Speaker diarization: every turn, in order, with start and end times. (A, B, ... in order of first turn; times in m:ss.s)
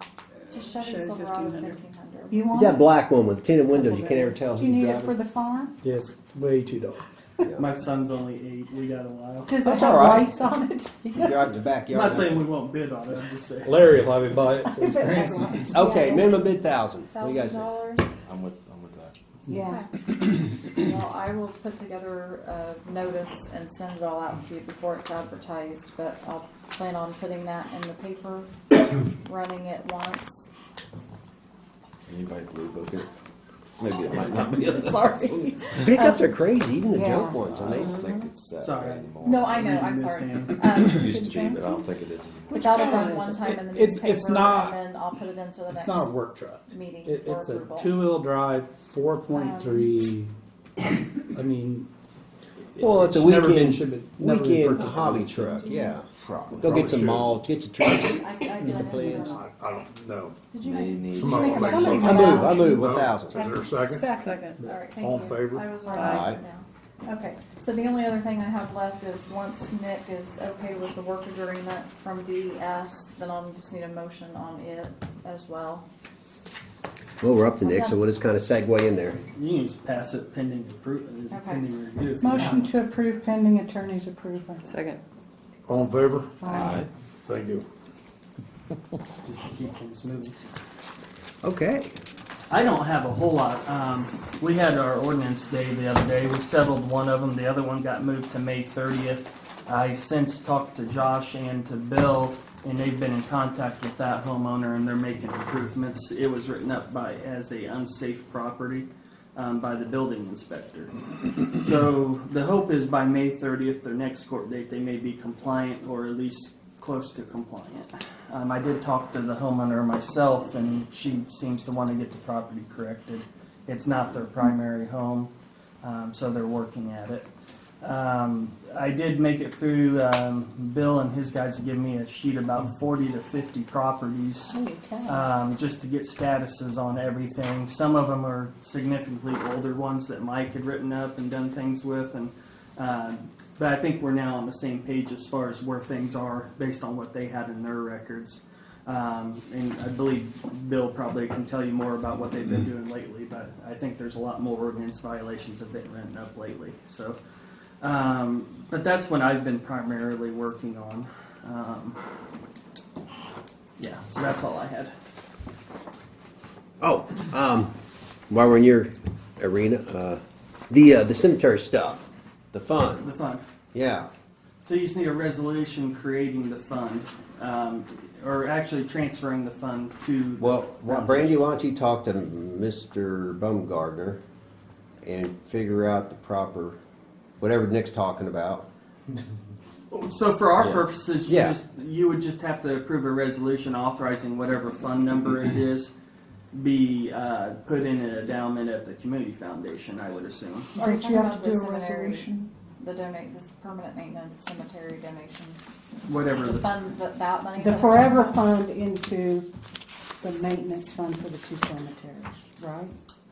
0:00.5-0:02.6 A
0:00.8-0:01.8 B
0:02.3-0:02.8 C
0:02.5-0:05.2 D
0:03.7-0:05.8 C
0:05.8-0:07.0 E
0:07.6-0:09.6 F
0:09.5-0:11.3 C
0:09.6-0:10.4 D
0:11.0-0:12.4 D
0:11.9-0:14.0 F
0:13.6-0:15.9 E
0:14.6-0:16.3 C
0:15.7-0:17.7 D
0:15.9-0:16.2 A
0:17.1-0:18.0 A
0:18.2-0:19.2 G
0:19.5-0:19.8 C
0:20.7-0:30.4 A
0:32.1-0:33.1 G
0:33.8-0:36.0 G
0:34.1-0:34.4 F
0:34.3-0:36.3 A
0:35.8-0:37.9 D
0:36.9-0:37.3 C
0:37.4-0:39.7 G
0:37.8-0:40.9 F
0:39.2-0:41.4 A
0:40.8-0:42.7 G
0:41.2-0:41.9 C
0:42.5-0:46.1 A
0:42.5-0:43.4 C
0:42.8-0:44.8 E
0:45.7-0:51.9 E
0:46.7-0:48.0 A
0:49.3-0:49.9 C
0:52.7-0:55.7 E
0:52.8-0:59.4 D
0:56.1-0:56.9 G
0:56.5-0:57.4 H
0:58.0-0:59.5 A
0:58.8-0:59.1 E
0:59.0-1:00.4 H
1:00.5-1:02.8 A
1:00.6-1:02.0 G
1:01.1-1:04.1 H
1:01.5-1:02.7 C
1:02.0-1:03.5 D
1:03.3-1:04.5 C
1:04.0-1:04.6 B
1:04.6-1:04.9 E
1:04.6-1:15.8 A
1:05.0-1:05.8 H
1:05.9-1:06.3 C
1:05.9-1:06.3 B
1:06.0-1:06.4 D
1:17.2-1:19.2 D
1:17.6-1:18.0 A
1:19.3-1:22.7 F
1:21.3-1:21.6 A
1:22.2-1:24.7 C
1:22.3-1:22.6 A
1:24.6-1:25.0 B
1:25.7-1:26.5 H
1:26.4-1:26.8 C
1:26.5-1:26.9 G
1:27.3-1:27.7 H
1:29.2-1:30.4 F
1:31.4-1:32.0 D
1:32.5-2:05.3 F
2:05.8-2:07.3 F
2:07.8-2:37.2 F
2:14.5-2:15.3 C
2:37.8-2:42.0 F
2:43.8-2:44.9 F
2:46.8-2:47.7 D
2:48.3-2:53.1 D
2:53.0-2:53.4 F
2:53.7-2:54.1 D
2:54.6-3:01.4 F
3:00.4-3:04.2 D
3:05.0-3:06.8 D
3:07.4-3:08.7 D
3:09.9-3:15.9 F
3:10.6-3:10.9 G
3:11.3-3:11.6 D
3:16.5-3:20.7 F
3:20.7-3:22.5 C
3:20.8-3:25.6 A
3:26.0-3:26.7 F
3:26.4-3:28.4 A
3:27.6-3:29.5 C
3:30.2-3:33.0 C